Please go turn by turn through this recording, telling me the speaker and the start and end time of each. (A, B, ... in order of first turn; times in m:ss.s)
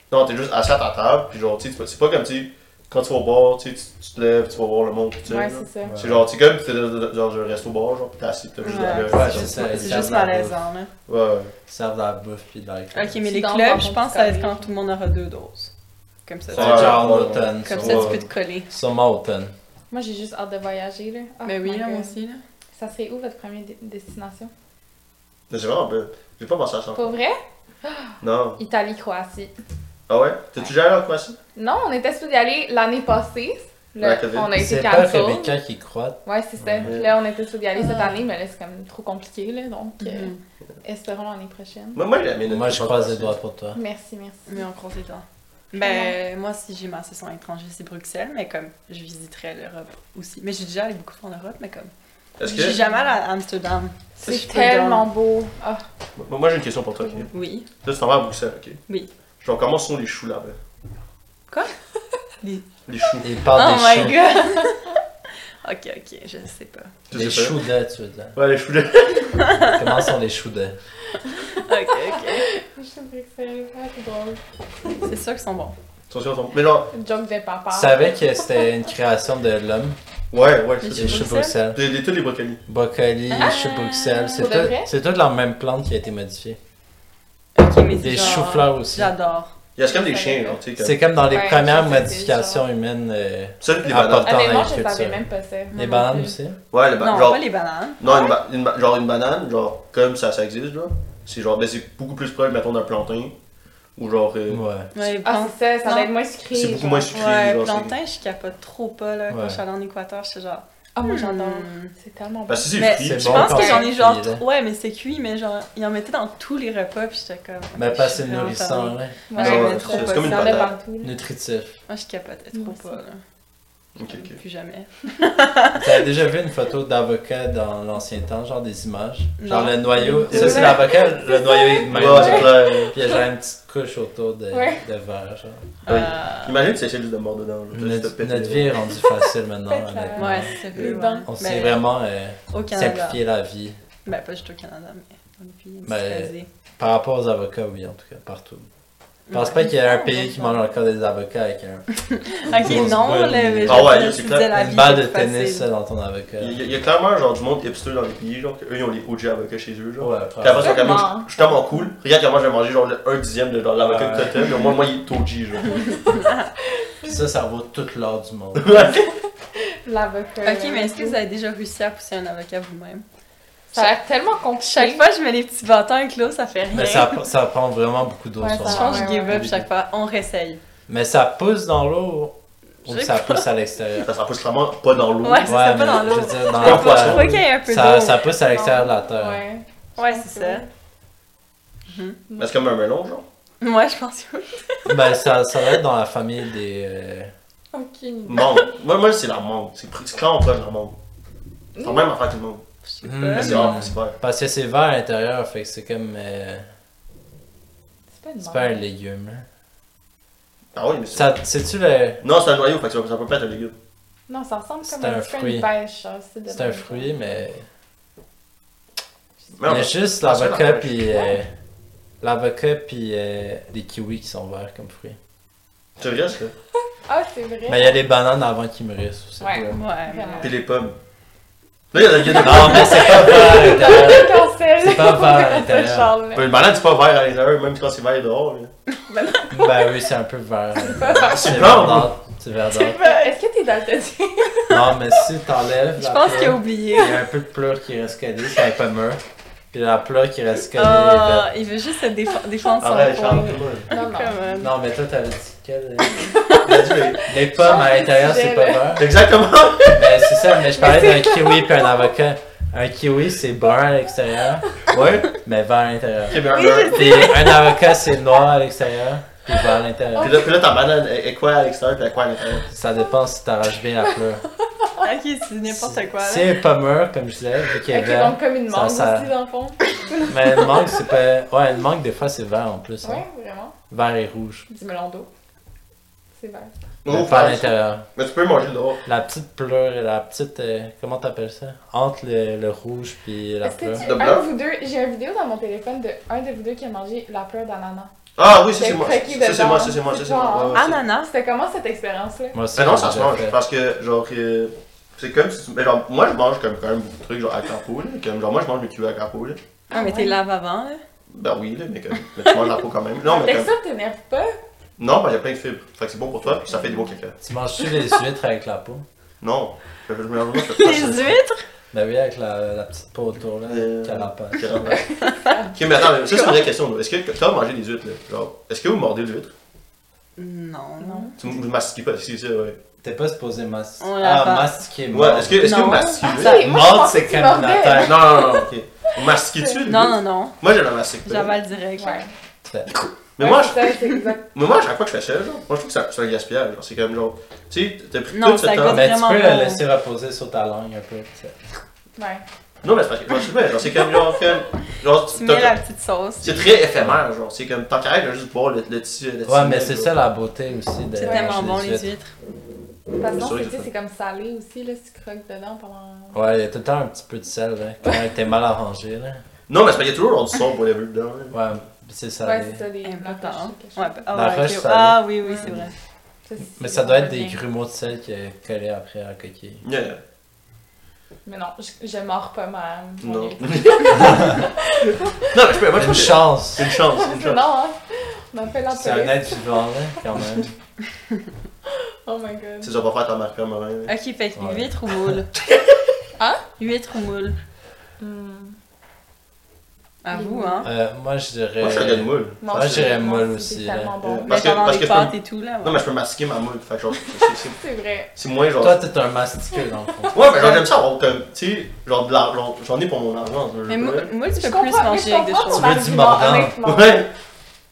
0:00.1-0:10.2 A
0:05.3-0:05.9 B
0:05.8-0:06.2 C
0:08.6-0:10.9 D
0:09.0-0:10.6 C
0:11.1-0:11.5 A
0:11.7-0:13.2 C
0:12.9-0:15.7 D
0:13.3-0:14.7 B
0:16.3-0:18.7 D
0:16.5-0:18.2 A
0:16.5-0:19.5 C
0:19.9-0:22.2 B
0:21.5-0:22.4 D
0:22.8-0:24.5 B
0:25.5-0:27.1 A
0:27.0-0:29.5 B
0:28.2-0:28.6 A
0:30.1-0:31.4 A
0:31.6-0:35.6 B
0:34.0-0:34.5 A
0:34.5-0:36.9 C
0:36.2-0:40.3 B
0:36.8-0:37.1 A
0:37.8-0:38.2 D
0:40.0-0:40.4 D
0:40.8-0:42.0 B
0:42.0-0:43.4 A
0:42.4-0:43.8 C
0:43.8-0:44.6 B
0:44.5-0:51.9 D
0:45.8-0:46.2 B
0:52.4-0:52.8 A
0:52.4-0:55.1 D
0:54.2-0:55.8 B
0:56.2-0:57.3 A
0:57.3-0:57.7 D
0:57.8-0:58.8 A
0:59.4-1:00.6 A
1:02.9-1:03.3 A
1:03.2-1:04.2 C
1:03.5-1:05.0 D
1:04.2-1:04.7 B
1:05.6-1:06.9 D
1:07.1-1:07.6 A
1:07.1-1:08.4 C
1:08.4-1:09.5 A
1:09.5-1:09.7 D
1:09.7-1:10.8 C
1:11.3-1:11.6 B
1:11.5-1:12.5 D
1:12.1-1:14.4 B
1:15.0-1:15.8 D
1:16.1-1:16.9 A
1:16.9-1:18.1 B
1:17.7-1:20.0 C
1:20.3-1:22.6 A
1:20.8-1:21.6 D
1:20.9-1:21.8 C
1:22.7-1:26.6 C
1:23.3-1:24.6 D
1:24.4-1:24.9 B
1:27.6-1:29.5 D
1:28.0-1:29.1 C
1:29.8-1:31.0 A
1:29.8-1:30.6 B
1:30.8-1:36.6 C
1:31.3-1:32.6 B
1:33.6-1:34.4 A
1:34.2-1:35.8 B
1:35.7-1:36.4 D
1:36.7-1:37.4 A
1:37.0-1:38.0 D
1:38.0-1:43.3 A
1:38.0-1:38.3 B
1:44.0-1:44.6 A
1:44.5-1:44.9 C
1:44.9-1:46.1 D
1:45.1-1:47.1 B
1:46.5-1:47.9 A
1:47.1-1:51.9 D
1:49.3-1:49.6 C
1:51.0-1:52.7 B
1:52.5-1:53.7 A
1:52.8-2:00.7 D
1:53.0-1:54.4 C
1:53.6-1:53.8 B
1:57.8-1:59.2 C
1:59.3-2:01.1 B
1:59.4-2:00.7 A
2:01.0-2:01.8 C
2:01.9-2:03.2 D
2:02.5-2:03.0 B
2:04.0-2:04.4 A
2:04.1-2:06.0 D
2:05.8-2:15.7 C
2:09.4-2:10.7 D
2:09.9-2:12.7 B
2:10.3-2:10.8 A
2:11.9-2:13.0 A
2:14.5-2:14.8 B
2:15.8-2:16.6 D
2:15.9-2:18.8 A
2:17.7-2:20.5 C
2:19.7-2:21.3 B
2:20.2-2:21.8 D
2:21.3-2:23.8 C
2:22.5-2:23.2 D
2:24.0-2:26.5 D
2:25.9-2:28.7 C
2:29.3-2:30.6 D
2:29.3-2:31.9 C
2:32.1-2:35.7 D
2:32.5-2:36.6 C
2:33.6-2:34.5 A
2:36.4-2:46.0 A
2:40.0-2:41.0 C
2:40.6-2:41.3 B
2:43.8-2:44.4 C
2:46.0-2:46.5 D
2:47.0-2:49.0 C
2:48.6-2:49.1 A
2:49.6-2:51.2 B
2:50.4-2:53.0 D
2:53.7-2:55.1 B
2:54.6-2:57.2 D
2:56.7-2:59.4 C
2:58.4-2:59.4 B
2:58.6-3:00.6 D
3:00.9-3:04.1 C
3:02.9-3:03.5 D
3:04.0-3:07.4 A
3:05.2-3:08.3 D
3:05.4-3:09.4 C
3:08.5-3:10.7 B
3:10.0-3:10.6 D
3:11.9-3:12.2 D
3:12.3-3:12.5 B
3:12.4-3:13.2 A
3:13.6-3:15.2 D
3:14.9-3:17.3 C
3:17.7-3:18.7 B
3:18.3-3:21.0 A
3:21.8-3:22.1 B
3:21.8-3:22.6 A
3:22.9-3:23.9 D
3:23.0-3:26.7 C
3:23.3-3:24.2 A
3:28.1-3:28.8 B
3:28.4-3:29.4 C
3:30.7-3:31.3 A
3:31.1-3:32.2 C
3:32.2-3:33.8 A
3:34.3-3:37.3 B
3:34.8-3:35.7 C
3:36.5-3:37.7 C
3:39.6-3:41.2 A
3:39.7-3:41.5 C
3:42.2-3:45.2 C
3:46.0-3:46.5 A
3:47.1-3:48.0 B
3:47.7-3:49.8 C
3:49.4-3:50.6 B
3:49.7-3:50.6 D
3:50.4-3:51.0 A
3:51.9-3:54.1 A
3:52.2-3:56.5 B
3:52.4-3:56.1 C
3:56.3-3:58.7 A
3:59.1-3:59.7 B
3:59.5-4:03.0 C
4:00.8-4:01.7 B
4:01.2-4:02.1 A
4:02.7-4:03.4 D
4:02.8-4:04.8 B
4:04.7-4:09.2 C
4:06.0-4:07.2 D
4:09.7-4:11.5 C
4:10.7-4:14.7 D
4:12.8-4:13.9 A
4:13.9-4:14.4 B
4:14.6-4:16.3 C
4:16.2-4:19.0 B
4:16.6-4:17.3 A
4:17.2-4:19.1 C
4:19.0-4:20.0 A
4:19.8-4:22.0 B
4:19.9-4:24.7 C
4:24.9-4:25.4 A
4:25.4-4:30.4 C
4:26.3-4:27.3 A
4:26.4-4:27.8 D
4:30.2-4:30.5 B
4:30.2-4:32.7 A
4:32.7-4:34.4 C
4:35.0-4:36.5 D
4:35.7-4:39.3 C
4:37.9-4:40.3 B
4:40.3-4:43.2 C
4:43.0-4:43.7 B
4:43.9-4:44.7 C
4:44.7-4:45.3 B
4:46.4-4:46.7 B
4:47.0-4:49.0 A
4:47.1-4:48.1 C
4:49.0-4:54.1 C
4:53.6-4:58.1 B
4:54.0-4:54.5 A
4:58.4-5:01.0 A
4:58.7-5:02.6 B
5:00.7-5:01.3 D
5:02.5-5:03.6 C
5:02.8-5:09.6 A
5:09.9-5:10.4 B
5:09.9-5:11.0 D
5:11.3-5:13.7 A
5:12.4-5:12.8 D
5:13.2-5:14.6 B
5:15.0-5:17.4 A
5:16.5-5:17.2 B
5:17.4-5:19.0 C
5:19.4-5:21.3 A
5:20.5-5:21.6 D
5:21.9-5:24.8 C
5:23.7-5:25.1 A
5:24.8-5:25.8 B
5:25.2-5:25.6 D
5:25.7-5:29.5 A
5:26.2-5:26.7 D
5:30.4-5:31.3 D
5:31.0-5:31.4 B
5:31.4-5:32.8 A
5:33.0-5:35.8 C
5:34.0-5:34.8 D
5:35.1-5:36.7 A
5:35.5-5:36.6 D
5:36.2-5:39.8 B
5:36.4-5:38.4 C
5:38.0-5:41.5 A
5:39.9-5:40.6 D
5:41.2-5:42.2 D
5:42.0-5:42.3 B
5:43.4-5:43.9 A
5:43.4-5:44.4 B
5:44.5-5:49.1 A
5:48.3-5:49.8 D
5:48.8-5:51.6 C
5:52.2-5:52.4 B
5:52.8-5:55.8 A
5:55.3-5:56.8 D
5:56.4-6:00.1 A
5:59.4-6:02.1 C
6:01.2-6:02.3 D
6:01.2-6:01.7 B
6:03.2-6:06.4 B
6:03.4-6:03.9 A
6:06.3-6:09.4 C
6:09.7-6:11.6 A
6:11.5-6:12.8 C
6:12.4-6:14.2 B
6:13.0-6:15.9 D
6:14.3-6:15.2 C
6:16.4-6:17.6 B
6:16.8-6:19.8 C
6:19.8-6:20.2 A
6:21.4-6:25.6 B
6:23.2-6:24.7 A
6:25.5-6:27.6 A
6:25.9-6:26.9 C
6:27.1-6:29.6 B
6:28.9-6:30.7 C
6:31.9-6:32.9 B
6:32.8-6:34.1 A
6:34.1-6:35.5 D
6:34.6-6:34.9 C
6:35.6-6:35.9 A
6:36.4-6:36.6 B
6:36.8-6:37.6 D
6:38.2-6:38.8 B
6:40.2-6:40.9 D
6:40.3-6:40.9 B
6:40.8-6:44.2 C
6:41.8-6:43.2 A
6:42.6-6:44.6 B
6:44.2-6:47.8 A
6:44.4-6:46.0 D
6:47.6-6:48.3 B
6:48.4-6:49.0 A
6:48.8-6:50.4 C
6:50.3-6:54.3 A
6:53.9-6:55.9 D
6:54.5-6:57.2 B
6:55.7-6:56.8 C
6:56.8-6:57.3 A